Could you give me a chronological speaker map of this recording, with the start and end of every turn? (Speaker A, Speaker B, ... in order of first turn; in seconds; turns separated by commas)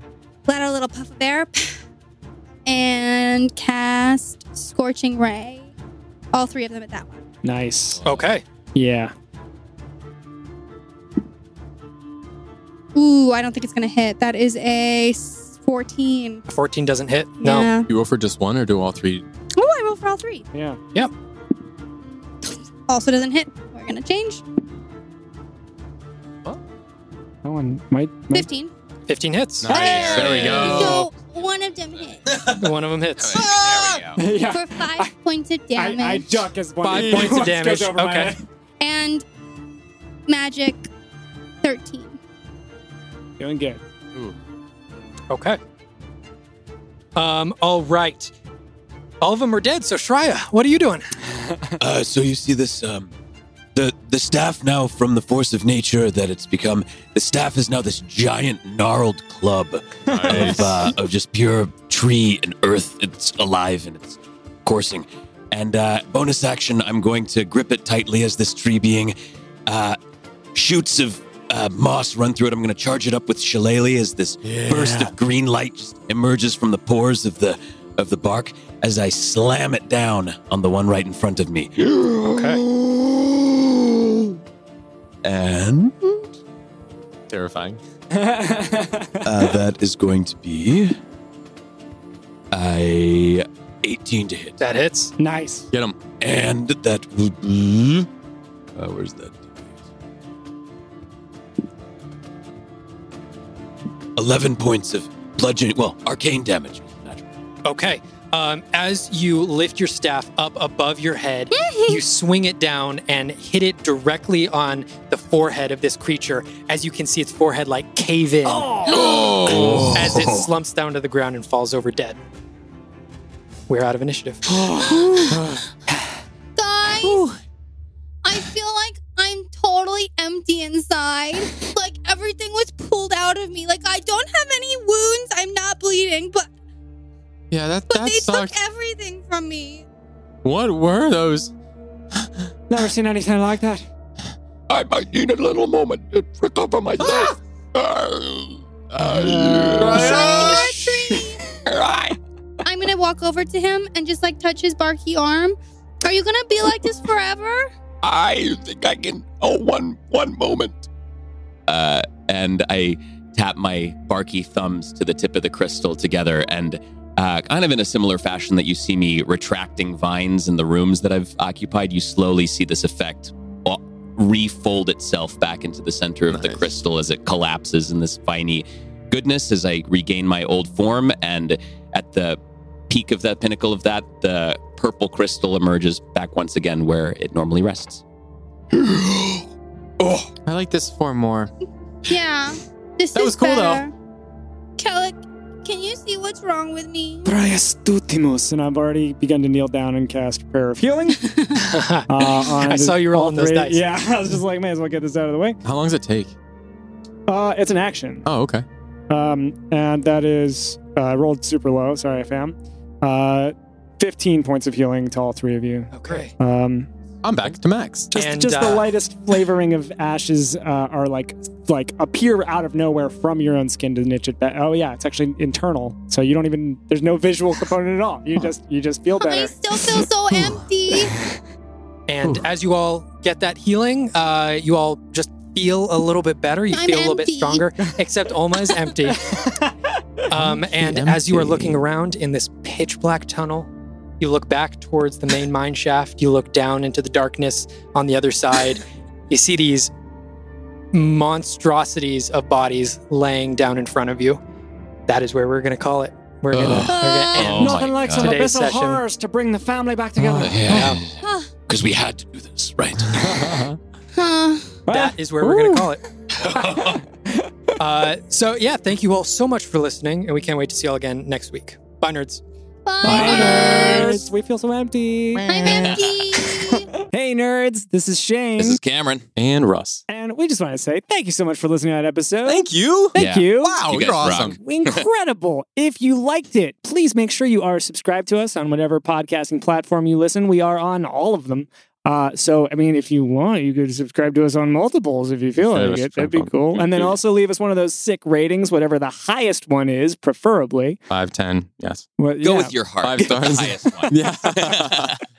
Speaker A: 0.5-1.8, Speaker A: 2.7-5.7, Speaker A: 6.3-7.2, Speaker B: 7.4-8.0, Speaker C: 8.0-8.3, Speaker D: 8.1-8.4, Speaker B: 8.8-9.1, Speaker A: 12.9-16.4, Speaker D: 16.5-17.7, Speaker A: 17.4-17.9, Speaker E: 17.9-19.3, Speaker A: 19.6-20.4, Speaker B: 20.5-20.8, Speaker A: 22.4-24.4, Speaker B: 27.4-28.5, Speaker A: 28.3-28.7, Speaker D: 29.1-30.2, Speaker E: 29.6-31.1, Speaker A: 29.7-32.5, Speaker C: 29.7-30.8, Speaker D: 32.5-33.5, Speaker C: 33.2-34.2, Speaker A: 33.3-36.4, Speaker B: 34.2-35.1, Speaker B: 35.8-38.4, Speaker D: 36.8-38.3, Speaker E: 37.0-37.2, Speaker A: 38.8-39.2, Speaker A: 40.3-40.9, Speaker A: 41.6-42.2, Speaker B: 43.4-43.8, Speaker D: 45.3-45.6, Speaker D: 47.1-48.3, Speaker D: 49.2-51.3, Speaker B: 51.4-51.7, Speaker F: 51.8-53.1, Speaker F: 53.8-69.1, Speaker E: 60.1-60.9, Speaker B: 60.1-60.9, Speaker F: 69.7-70.0, Speaker F: 70.5-83.8, Speaker E: 74.4-75.1, Speaker D: 82.3-82.6, Speaker F: 85.2-86.2, Speaker E: 87.3-87.8, Speaker B: 88.1-89.6, Speaker F: 89.2-91.0, Speaker F: 92.5-94.6, Speaker D: 94.6-95.1, Speaker B: 95.2-95.7, Speaker E: 95.7-96.0, Speaker F: 96.2-98.1, Speaker F: 98.8-99.7, Speaker F: 104.2-107.3, Speaker D: 107.7-118.9, Speaker A: 111.5-112.0, Speaker B: 118.5-119.3, Speaker A: 118.9-119.4, Speaker F: 119.0-120.5, Speaker E: 119.4-120.2, Speaker D: 119.9-122.2, Speaker D: 123.7-124.7, Speaker B: 124.5-125.4, Speaker A: 124.9-125.3, Speaker E: 125.1-125.6, Speaker A: 126.6-127.3, Speaker A: 128.2-136.5, Speaker E: 137.5-138.6, Speaker A: 137.9-139.8, Speaker E: 140.4-141.5, Speaker B: 142.7-143.8, Speaker F: 144.7-150.1, Speaker B: 149.0-150.0, Speaker E: 149.8-150.7, Speaker A: 149.9-151.4, Speaker D: 150.0-150.9, Speaker C: 151.7-152.0, Speaker A: 152.6-157.7, Speaker C: 158.0-160.9, Speaker C: 161.7-188.0, Speaker E: 176.3-176.7, Speaker F: 188.8-189.4, Speaker F: 190.0-190.3, Speaker E: 190.4-191.5, Speaker A: 192.1-193.9, Speaker E: 193.2-193.8, Speaker A: 194.8-197.3, Speaker B: 197.2-201.3, Speaker D: 201.6-203.8, Speaker B: 202.1-205.6, Speaker E: 205.6-206.3, Speaker B: 207.3-208.2, Speaker E: 208.2-208.6, Speaker B: 209.1-216.9, Speaker D: 215.9-216.3, Speaker E: 217.2-218.1, Speaker B: 218.1-229.5, Speaker D: 218.1-218.9, Speaker A: 229.2-231.1, Speaker E: 230.3-230.6, Speaker D: 232.1-239.4, Speaker A: 236.7-237.7, Speaker B: 239.1-240.2, Speaker D: 240.3-249.9, Speaker E: 240.4-241.8, Speaker D: 250.9-254.4, Speaker D: 255.1-259.0, Speaker F: 256.5-256.9, Speaker A: 256.8-257.5, Speaker C: 257.3-258.4, Speaker B: 257.4-260.9, Speaker F: 260.4-263.6, Speaker D: 260.6-261.0, Speaker A: 261.2-261.5, Speaker E: 263.1-263.8, Speaker A: 264.1-264.7, Speaker B: 264.9-265.9, Speaker D: 264.9-266.0, Speaker E: 265.4-265.8, Speaker F: 266.4-267.0, Speaker B: 266.6-267.8, Speaker D: 267.8-272.4, Speaker A: 272.9-274.3, Speaker B: 273.0-276.0, Speaker E: 273.2-274.1, Speaker C: 273.3-273.8, Speaker C: 275.5-276.2, Speaker A: 275.5-276.9, Speaker B: 277.0-278.8, Speaker C: 278.6-279.3, Speaker E: 279.4-280.0, Speaker B: 280.1-283.8, Speaker E: 282.5-284.6, Speaker C: 283.1-285.1, Speaker B: 284.6-301.0, Speaker E: 295.6-297.1, Speaker E: 301.1-302.1, Speaker B: 302.2-304.5, Speaker C: 302.4-305.2, Speaker E: 303.0-305.2